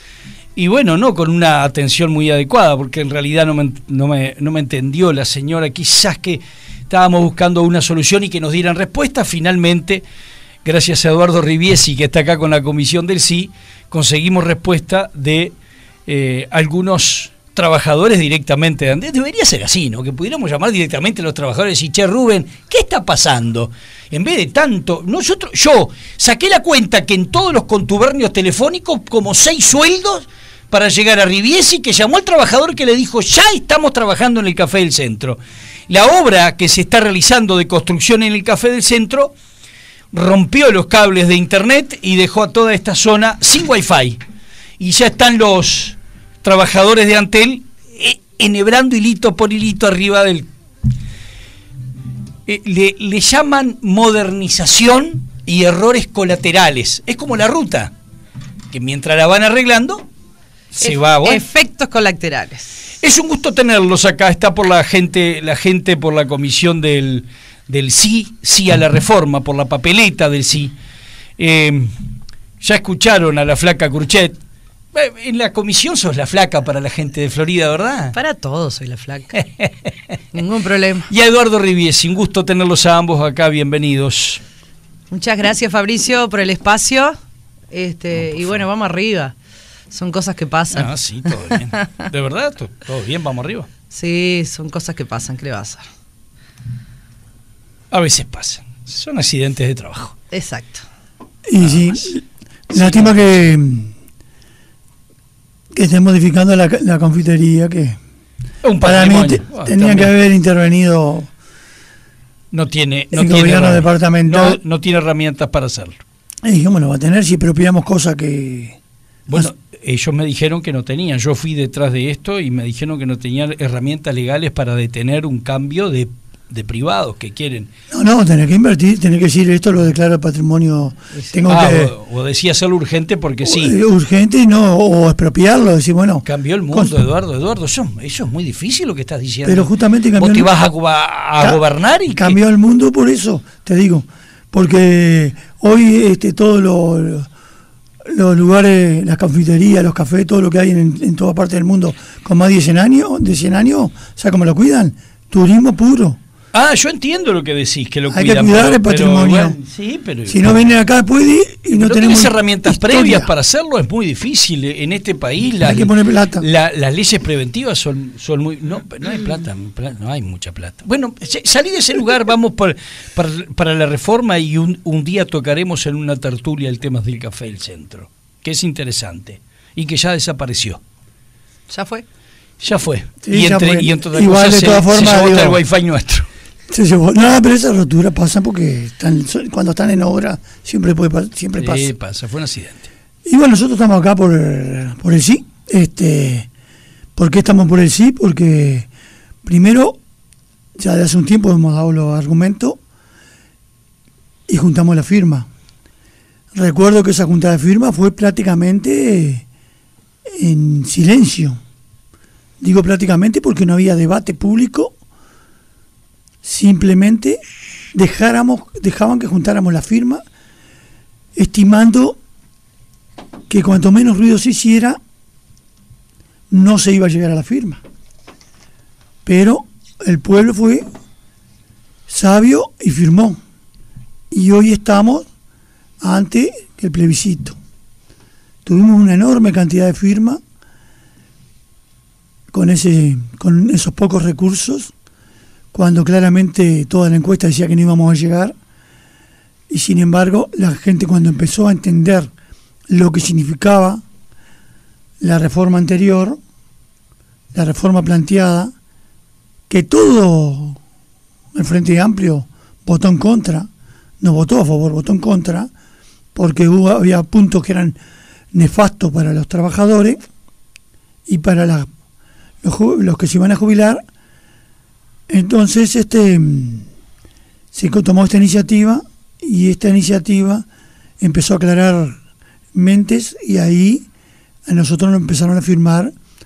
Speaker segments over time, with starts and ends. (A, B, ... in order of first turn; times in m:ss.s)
0:00.6-0:10.0 A
0:10.6-0:15.5 A
0:16.1-0:39.3 A
0:40.1-0:44.2 A
0:44.8-0:50.5 A
0:52.4-0:57.9 A
0:58.7-1:00.0 A
1:00.7-1:01.4 A
1:00.8-1:02.8 B
1:03.0-1:10.7 A
1:11.4-1:11.9 A
1:12.6-1:14.4 A
1:14.9-1:18.1 A
1:18.1-1:19.4 B
1:20.3-1:21.1 B
1:21.1-1:24.4 A
1:25.1-1:27.1 B
1:27.7-1:29.3 B
1:28.3-1:28.6 A
1:29.9-1:32.0 B
1:30.7-1:33.7 A
1:33.9-1:35.8 B
1:37.9-1:40.1 A
1:40.3-1:40.8 B
1:41.4-1:43.9 C
1:41.6-1:42.1 A
1:42.7-1:43.3 A
1:45.7-1:48.0 C
1:48.6-1:50.2 A
1:48.8-1:51.3 C
1:52.5-1:56.0 A
1:53.1-1:54.6 C
1:56.4-1:58.8 C
1:59.3-2:07.7 A
2:07.9-2:11.9 C
2:11.5-2:13.8 A
2:13.4-2:17.0 C
2:16.2-2:22.4 A
2:19.4-2:20.5 C
2:21.4-2:27.3 C
2:28.0-2:36.2 C
2:36.5-2:40.4 A
2:38.1-2:39.6 C
2:40.2-2:43.3 C
2:41.7-3:00.8 A
2:45.6-2:46.5 C
3:01.7-3:02.0 B
3:02.6-3:06.3 A
3:03.2-3:05.6 C
3:06.7-3:11.9 C
3:11.6-3:12.9 A
3:13.2-3:16.5 C
3:17.2-3:18.9 C
3:19.4-3:20.0 C
3:20.8-3:22.8 C
3:24.5-3:25.5 C
3:26.5-3:29.4 C
3:30.4-3:31.6 C
3:32.6-3:34.9 C
3:36.4-3:37.4 C
3:37.9-3:40.2 C
3:41.4-3:42.2 C
3:43.5-3:45.0 C
3:46.5-3:47.8 C
3:49.2-3:50.8 C
3:52.1-3:53.4 C
3:54.3-3:55.3 C
3:56.0-3:57.6 C
3:58.6-4:00.4 C
4:02.5-4:04.9 C
4:05.7-4:08.5 C
4:09.7-4:12.3 C
4:12.9-4:14.0 C
4:15.2-4:16.4 C
4:17.5-4:18.7 C
4:19.7-4:20.8 C
4:21.5-4:23.7 C
4:24.2-4:25.7 C
4:26.3-4:28.0 C
4:28.5-4:30.2 C
4:31.3-4:31.9 C
4:32.6-4:34.0 C
4:35.3-4:36.9 C
4:37.7-4:40.6 C
4:41.2-4:42.2 C
4:42.7-4:44.0 C
4:44.6-4:46.1 C